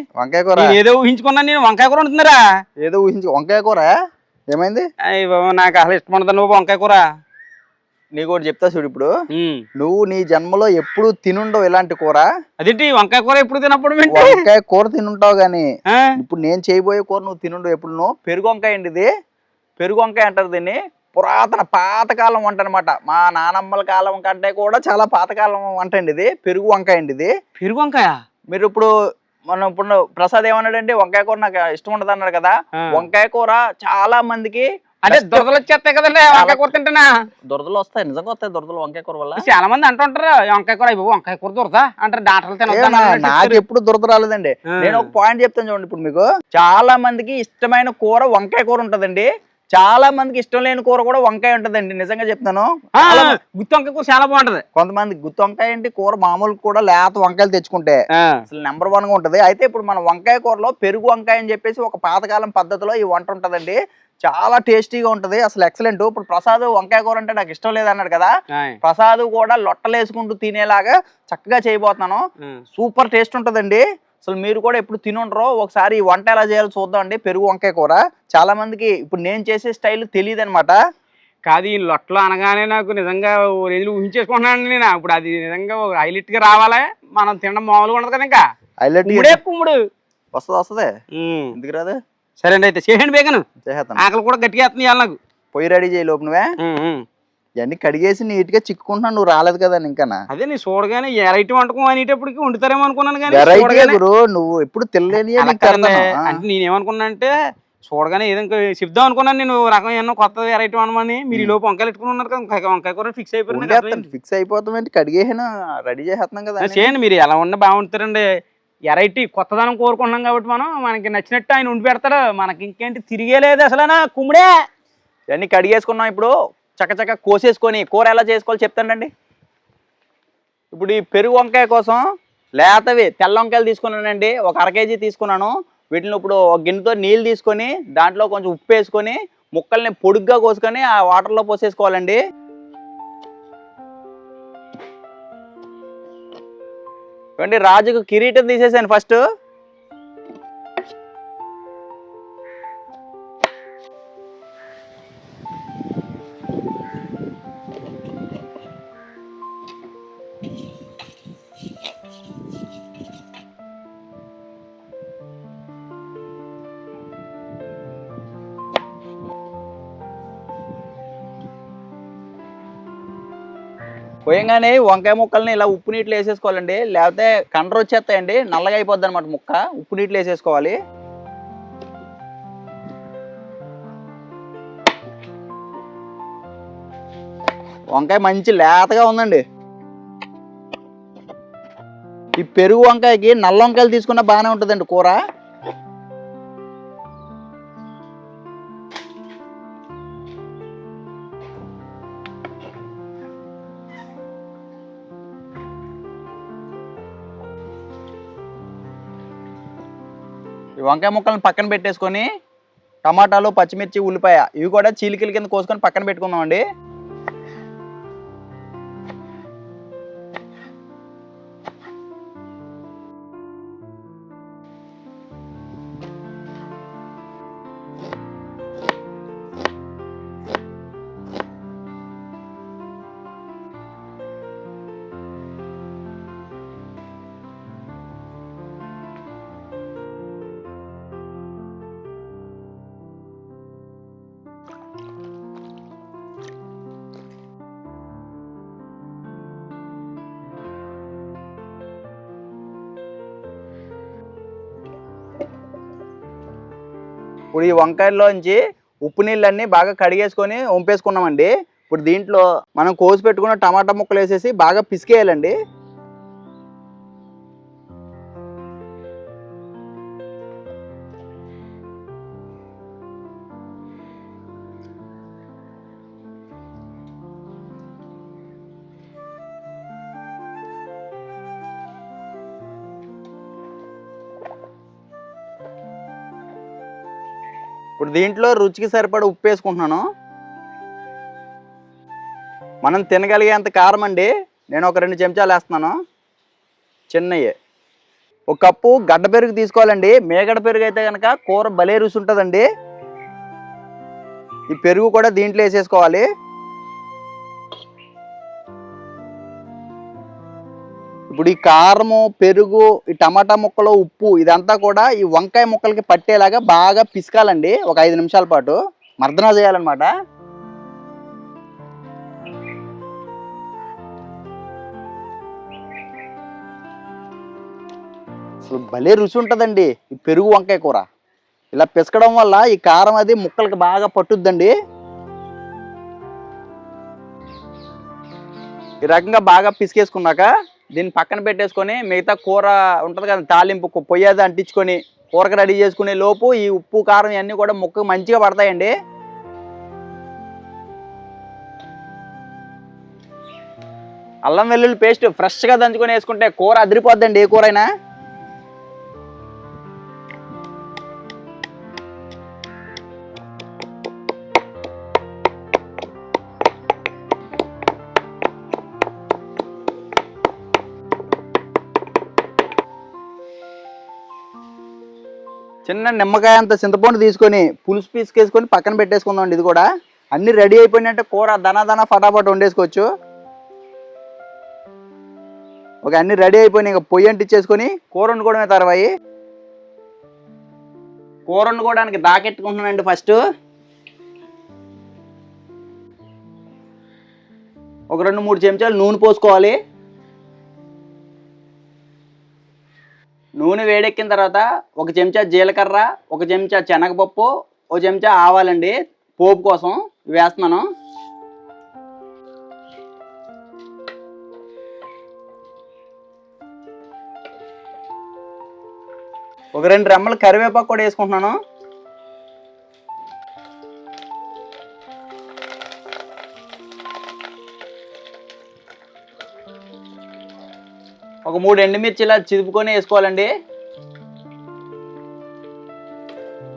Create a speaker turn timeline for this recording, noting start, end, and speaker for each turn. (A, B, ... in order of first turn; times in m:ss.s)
0:00.2-0:00.7 A
0:00.6-0:02.4 B
0:02.8-0:03.9 A
0:04.5-0:04.8 A
0:05.1-0:07.0 B
0:08.1-0:09.1 A
0:09.3-0:09.6 B
0:09.8-0:12.2 A
0:12.6-0:14.4 B
0:14.1-0:15.6 A
0:15.9-0:16.1 B
0:16.2-0:19.1 A
0:19.8-0:27.3 A
0:27.6-0:28.2 B
0:28.5-0:28.9 A
0:29.5-0:35.5 A
0:35.0-0:37.1 B
0:36.3-0:36.6 A
0:37.5-0:39.4 A
0:39.4-0:43.6 B
0:42.7-0:53.4 A
0:44.7-0:45.1 B
0:53.0-0:54.6 B
0:54.7-0:58.0 A
0:58.2-0:58.4 B
0:58.5-1:08.3 A
1:08.5-1:08.8 B
1:08.8-1:12.2 A
1:12.8-1:20.8 A
1:21.4-1:28.4 B
1:28.8-1:29.4 A
1:29.0-1:29.8 B
1:30.3-1:30.9 A
1:31.1-1:31.5 B
1:31.5-1:32.0 A
1:32.4-1:33.4 B
1:33.6-1:34.0 A
1:34.0-1:35.2 B
1:35.5-1:36.5 A
1:36.6-1:37.0 B
1:37.6-1:40.2 A
1:40.3-1:44.0 B
1:43.3-1:46.3 A
1:45.1-1:47.3 B
1:47.8-1:54.0 B
1:53.5-1:56.9 A
1:56.6-1:58.2 B
1:58.9-2:04.6 B
2:05.3-2:09.1 A
2:10.7-2:12.0 A
2:12.6-2:22.2 A
2:27.4-2:29.2 A
2:54.3-3:00.7 A
3:07.9-3:09.4 A
3:12.4-3:15.2 A
3:30.8-3:32.2 A
3:33.0-3:36.6 A
4:17.5-4:25.5 A
4:48.0-4:50.0 A
4:52.8-4:55.9 A
4:57.1-4:57.5 A
4:58.5-5:02.6 A
5:04.7-5:06.2 A
5:11.3-5:20.1 A
5:28.6-5:31.0 A
5:31.7-5:34.7 A
5:39.1-5:48.9 A
5:54.4-5:57.9 A
6:15.9-6:23.0 A
6:26.0-6:29.1 A
6:31.5-6:33.4 A
6:38.1-6:39.8 A
6:43.6-6:50.8 A
6:59.8-7:01.5 A
7:11.4-7:13.5 A